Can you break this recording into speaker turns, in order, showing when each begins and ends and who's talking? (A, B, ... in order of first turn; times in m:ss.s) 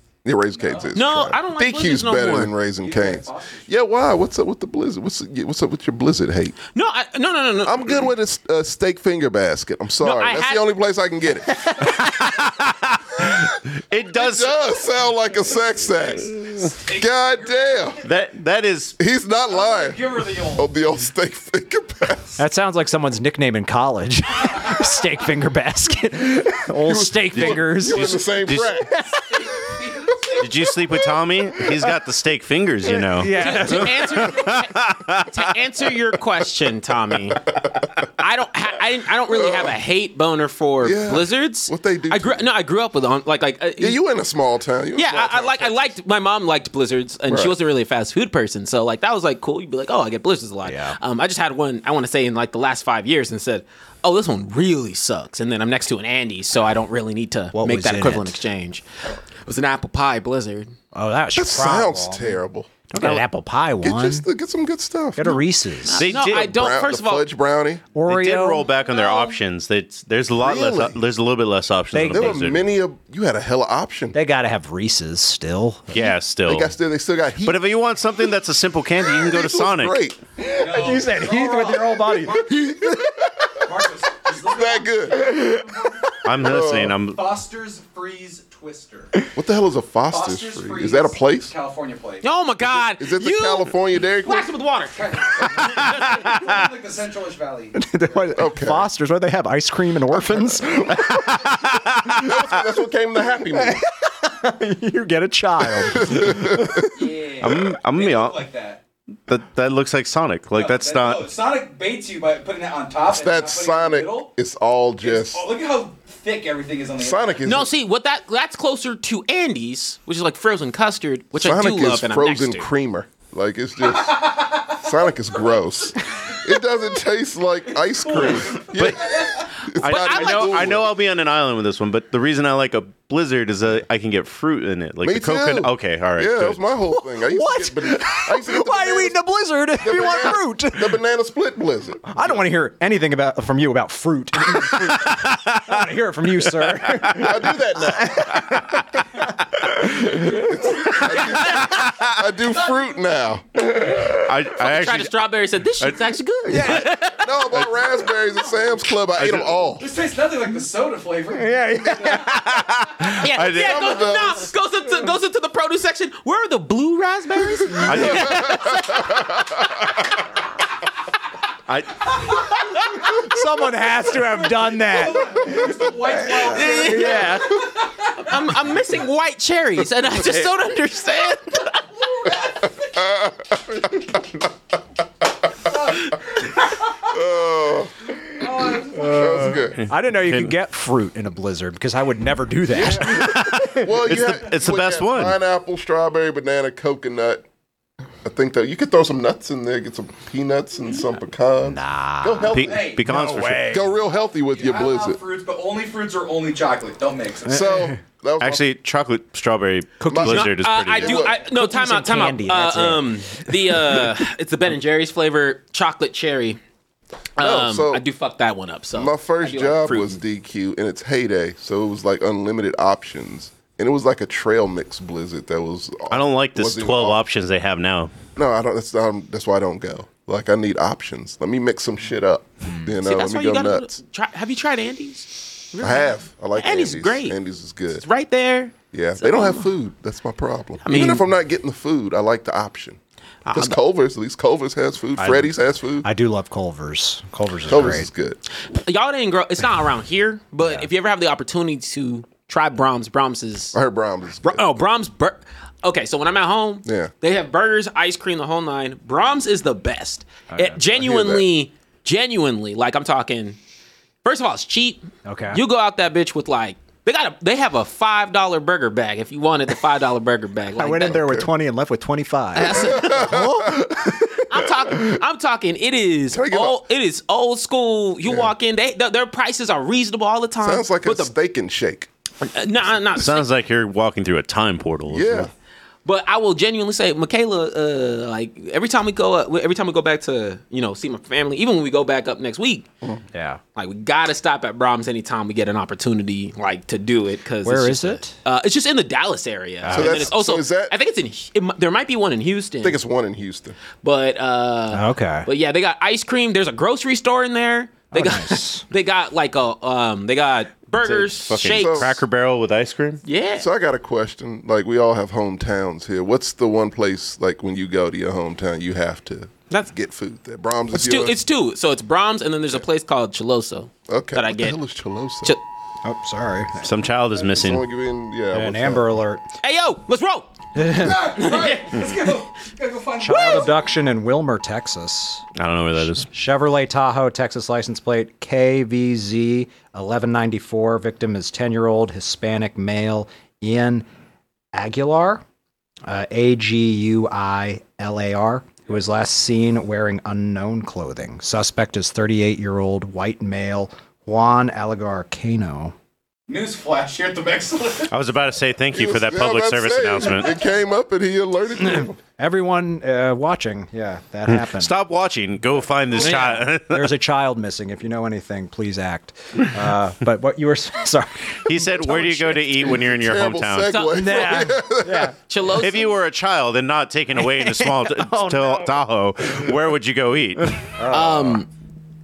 0:00.2-0:06.6 A
0:00.6-0:00.9 B
0:01.0-0:02.5 C
0:02.7-0:03.7 B
0:06.8-0:08.0 C
0:07.6-0:11.9 A
0:10.0-0:10.7 C
0:11.8-0:14.6 D
0:14.1-0:18.0 A
0:16.8-0:18.0 B
0:18.0-0:19.0 D
0:19.0-0:22.4 A
0:19.5-0:20.7 B
0:22.4-0:29.2 E
0:26.8-0:28.9 A
0:27.4-0:28.8 D
0:29.3-0:30.5 B
0:30.4-0:35.4 D
0:33.1-0:34.0 E
0:33.3-0:37.5 C
0:38.2-0:44.0 C
0:39.3-0:39.8 A
0:40.8-0:42.4 A
0:43.8-0:45.9 A
0:45.0-0:58.8 C
0:47.3-0:47.5 A
0:50.6-0:51.0 E
0:57.5-0:58.4 E
0:59.4-1:00.7 C
1:00.9-1:02.4 E
1:01.4-1:02.7 A
1:02.9-1:04.3 E
1:03.8-1:05.4 A
1:05.2-1:06.0 E
1:05.8-1:07.2 C
1:06.0-1:06.5 D
1:06.2-1:07.8 A
1:07.9-1:08.7 E
1:08.1-1:12.7 D
1:08.9-1:09.4 B
1:10.4-1:11.0 A
1:11.9-1:12.4 E
1:12.1-1:14.2 A
1:14.1-1:15.9 E
1:15.9-1:16.8 D
1:16.5-1:18.3 A
1:17.4-1:20.0 D
1:19.0-1:21.0 A
1:20.5-1:23.1 E
1:20.6-1:22.8 B
1:22.4-1:23.7 A
1:23.6-1:29.1 B
1:24.3-1:25.7 A
1:26.2-1:27.2 D
1:26.3-1:27.0 A
1:29.4-1:31.5 A
1:30.1-1:32.2 B
1:32.2-1:36.2 C
1:32.6-1:34.5 A
1:34.9-1:38.4 B
1:35.9-1:36.5 D
1:37.8-1:41.5 E
1:38.4-1:38.9 A
1:40.1-1:41.5 A
1:41.3-1:42.2 D
1:42.1-1:43.8 A
1:43.5-1:46.9 E
1:45.8-1:47.0 A
1:46.9-1:48.8 B
1:47.4-1:48.4 D
1:49.3-1:51.3 D
1:50.5-1:54.3 B
1:53.1-1:55.4 A
1:55.0-1:57.4 B
1:57.0-1:57.7 A
1:57.4-2:02.7 C
2:01.4-2:11.0 A
2:03.8-2:05.0 B
2:08.0-2:09.5 B
2:08.6-2:09.1 D
2:09.7-2:10.8 C
2:09.8-2:16.6 D
2:15.0-2:19.2 A
2:16.9-2:21.0 E
2:19.8-2:22.4 A
2:22.1-2:28.9 E
2:24.7-2:25.8 D
2:26.9-2:27.2 D
2:27.1-2:28.4 A
2:28.3-2:29.0 D
2:29.6-2:30.5 E
2:29.6-2:32.2 D
2:30.1-2:34.2 A
2:32.6-2:32.8 B
2:34.0-2:35.2 D
2:34.6-2:37.4 C
2:35.8-2:36.8 D
2:36.5-2:36.9 E
2:37.2-2:39.8 A
2:37.4-2:38.0 D
2:39.2-2:39.6 D
2:39.8-2:42.8 B
2:41.4-2:42.5 E
2:42.2-2:44.1 D
2:43.1-2:49.3 C
2:43.4-2:44.5 A
2:47.7-2:50.1 A
2:47.8-2:48.6 D
2:51.7-2:52.7 D
2:52.1-2:53.2 B
2:53.0-2:57.6 E
2:53.9-2:58.4 B
2:56.5-2:57.4 C
2:58.2-3:01.8 C
3:01.9-3:03.1 B
3:03.0-3:04.5 A
3:05.6-3:07.0 B
3:07.0-3:09.9 A
3:08.4-3:09.4 B
3:08.9-3:13.4 E
3:09.7-3:10.5 D
3:12.7-3:17.4 A
3:13.0-3:15.4 D
3:18.2-3:22.9 A
3:21.6-3:23.9 E
3:22.5-3:23.8 D
3:22.6-3:23.0 B
3:23.7-3:25.2 A
3:24.5-3:27.7 B
3:27.5-3:28.6 A
3:27.5-3:28.0 E
3:28.4-3:31.3 D
3:30.0-3:30.5 E
3:30.1-3:31.4 A
3:30.2-3:36.6 C
3:31.4-3:33.8 E
3:37.4-3:40.2 C
3:37.4-3:38.0 A
3:39.0-3:47.2 A
3:46.1-3:48.1 D
3:48.4-3:53.9 A
3:53.0-3:57.4 C
3:55.8-3:58.0 A
3:58.0-3:59.7 C
3:58.9-4:03.0 A
4:00.8-4:01.3 C
4:03.5-4:03.8 C
4:03.5-4:06.1 A
4:05.2-4:08.1 E
4:07.7-4:08.4 A
4:08.7-4:13.8 C
4:13.7-4:14.7 A
4:14.4-4:23.6 C
4:16.8-4:17.1 A
4:20.5-4:20.8 E
4:20.9-4:21.5 A
4:24.2-4:31.2 C
4:25.3-4:25.6 E
4:30.8-4:33.4 E
4:31.0-4:31.5 A
4:32.6-4:41.3 C
4:32.7-4:35.1 A
4:36.3-4:36.8 A
4:38.2-4:38.5 A
4:40.6-4:42.1 A
4:42.4-4:43.5 C
4:43.2-4:45.5 D
4:45.1-4:45.5 A
4:46.0-4:52.9 C
4:53.3-4:53.6 E
4:53.8-5:03.0 C
4:57.6-4:58.4 E
4:59.8-5:00.3 E
4:59.9-5:00.9 A
5:02.8-5:03.8 A
5:04.0-5:12.2 C
5:04.9-5:05.5 E
5:08.1-5:08.8 E
5:11.0-5:13.2 D
5:11.6-5:12.2 A
5:13.2-5:13.7 C
5:13.6-5:21.4 A
5:20.9-5:24.8 C
5:24.1-5:25.6 A
5:26.0-5:26.9 E
5:26.8-5:27.8 D
5:27.4-5:29.1 A
5:28.5-5:29.4 E
5:29.6-5:30.6 C
5:30.8-5:31.4 E
5:30.9-5:33.8 B
5:31.4-5:32.4 C
5:33.2-5:35.4 E
5:33.3-5:33.7 C
5:35.6-5:36.3 D
5:36.2-5:44.0 E
5:44.7-5:45.4 E
5:46.1-5:56.0 E
5:56.5-5:58.1 B
5:58.1-6:00.5 D
5:58.9-6:02.2 A
6:01.8-6:04.9 E
6:04.5-6:07.1 D
6:06.2-6:12.6 E
6:06.2-6:06.6 C
6:11.7-6:13.9 D
6:12.7-6:15.3 A
6:13.9-6:14.6 C
6:14.1-6:15.4 E
6:15.5-6:16.2 C
6:15.7-6:20.9 D
6:17.4-6:18.8 E
6:21.0-6:21.6 E
6:21.1-6:21.7 C